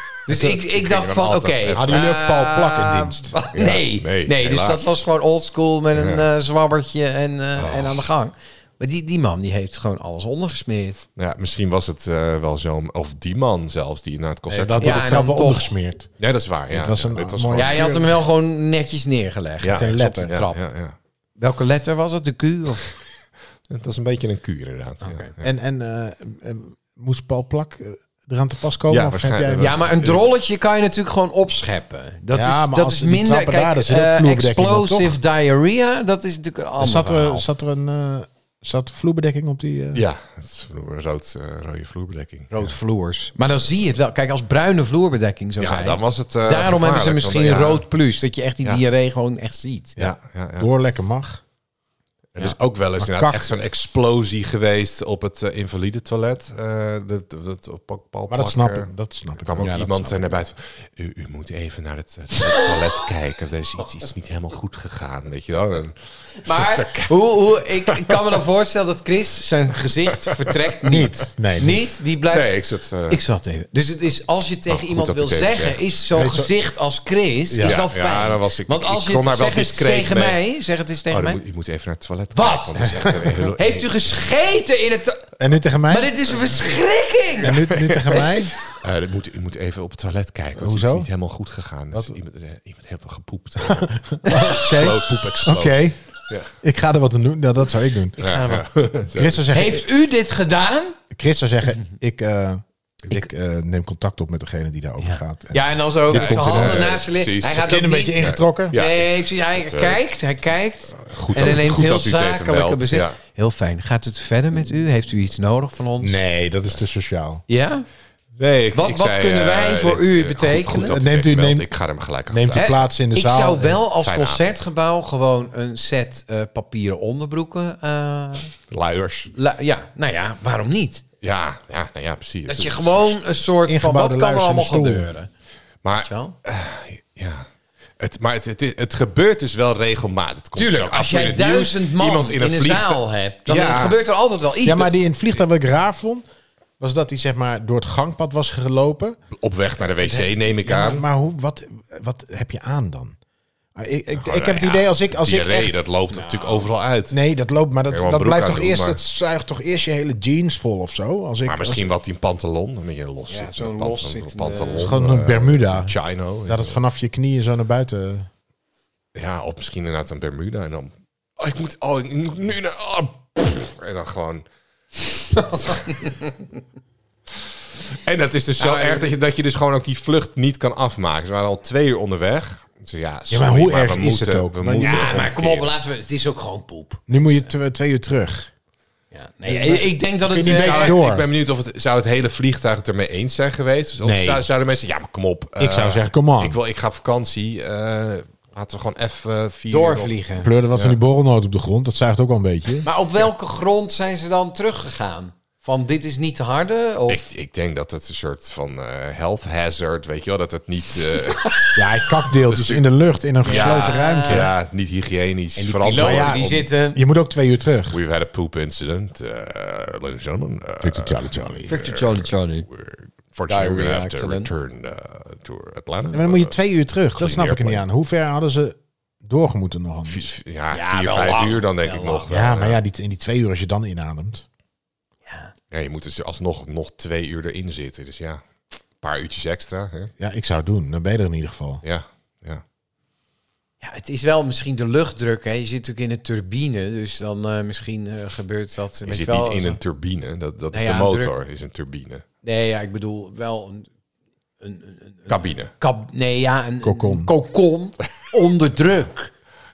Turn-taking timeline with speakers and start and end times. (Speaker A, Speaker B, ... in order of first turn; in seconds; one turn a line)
Speaker A: 0.2-11.0
Speaker B: 0.3-2.0
Speaker C: 1.7-3.4
Speaker B: 3.5-4.9
Speaker B: 5.9-6.3
Speaker B: 7.6-8.0
Speaker B: 11.2-15.1
Speaker C: 14.5-16.1
Speaker A: 14.8-15.7
Speaker B: 16.2-17.9
Speaker C: 16.7-18.1
Speaker A: 17.6-20.6
Speaker B: 19.6-20.9
Speaker C: 19.7-20.4
Speaker A: 21.4-22.9
Speaker B: 23.7-25.4
Speaker A: 25.0-25.3
Speaker C: 25.4-29.8
Speaker B: 28.9-30.2
Speaker A: 29.6-37.5
Speaker C: 32.3-35.1
Speaker C: 36.8-40.0
Speaker B: 39.9-42.7
Speaker A: 42.5-50.0
Speaker B: 45.6-47.9
Speaker B: 50.0-50.7
Speaker C: 50.0-51.4
Speaker B: 52.4-58.9
Speaker C: 53.0-53.5
Speaker C: 58.3-60.3
Speaker B: 59.4-68.2
Speaker A: 66.4-72.5
Speaker B: 70.8-71.2
Speaker C: 71.2-71.8
Speaker B: 72.3-73.2
Speaker A: 73.1-81.4
Speaker B: 74.7-76.0
Speaker C: 76.1-76.5
Speaker C: 77.5-77.8
Speaker B: 77.6-80.4
Speaker B: 81.1-84.1
Speaker A: 82.3-85.3
Speaker C: 83.0-83.2
Speaker C: 85.4-86.1
Speaker A: 85.9-87.6
Speaker C: 87.4-88.5
Speaker B: 87.5-96.5
Speaker C: 90.6-91.1
Speaker C: 93.6-96.0
Speaker C: 96.6-98.2
Speaker A: 98.2-98.7
Speaker B: 98.2-99.5
Speaker C: 99.1-99.9
Speaker A: 99.5-101.0
Speaker C: 101.1-106.9
Speaker A: 105.0-116.2
Speaker B: 106.1-110.0
Speaker C: 107.5-108.8
Speaker B: 110.9-113.2
Speaker C: 116.0-117.4
Speaker A: 117.5-117.9
Speaker B: 118.3-122.7
Speaker A: 118.7-120.9
Speaker C: 120.8-121.7
Speaker C: 122.3-123.8
Speaker A: 122.5-128.5
Speaker B: 124.0-124.6
Speaker B: 128.7-129.3
Speaker A: 129.3-131.0
Speaker B: 131.2-133.1
Speaker A: 132.4-135.3
Speaker C: 133.7-135.1
Speaker B: 135.8-137.4
Speaker A: 136.0-136.3
Speaker B: 138.0-144.0
Speaker A: 140.6-144.9
Speaker C: 144.6-146.2
Speaker C: 146.8-149.2
Speaker B: 149.3-151.0
Speaker C: 150.0-153.2
Speaker C: 153.8-155.8
Speaker B: 154.2-157.2
Speaker A: 156.1-156.7
Speaker C: 157.1-161.9
Speaker B: 157.9-159.0
Speaker B: 161.4-166.8
Speaker A: 163.3-165.0
Speaker C: 164.8-165.9
Speaker C: 166.4-168.3
Speaker B: 169.1-174.4
Speaker A: 175.3-176.3
Speaker B: 175.5-176.1
Speaker B: 177.9-185.7
Speaker A: 178.6-179.1
Speaker C: 183.3-185.3
Speaker A: 184.8-187.5
Speaker C: 187.1-188.5
Speaker A: 189.1-191.0
Speaker C: 189.4-191.2
Speaker B: 190.4-200.1
Speaker C: 194.0-194.4
Speaker C: 195.6-196.6
Speaker A: 199.7-200.5
Speaker C: 200.4-202.9
Speaker A: 202.8-207.2
Speaker B: 207.1-212.8
Speaker C: 211.7-214.5
Speaker A: 213.4-214.5
Speaker B: 213.4-216.6
Speaker A: 215.6-217.0
Speaker C: 215.9-218.0
Speaker B: 217.9-226.5
Speaker C: 220.8-221.8
Speaker A: 221.7-222.7
Speaker A: 223.5-224.5
Speaker C: 226.1-230.3
Speaker B: 227.2-227.8
Speaker B: 230.1-232.8
Speaker A: 230.7-232.3
Speaker C: 232.3-234.4
Speaker A: 235.2-235.5
Speaker B: 235.7-238.4
Speaker B: 239.0-240.1
Speaker C: 240.2-241.8
Speaker B: 241.8-242.6
Speaker A: 243.8-249.8
Speaker B: 249.0-252.2
Speaker A: 250.7-251.3
Speaker A: 252.4-253.9
Speaker A: 254.6-259.3
Speaker B: 255.3-255.7
Speaker C: 256.8-257.3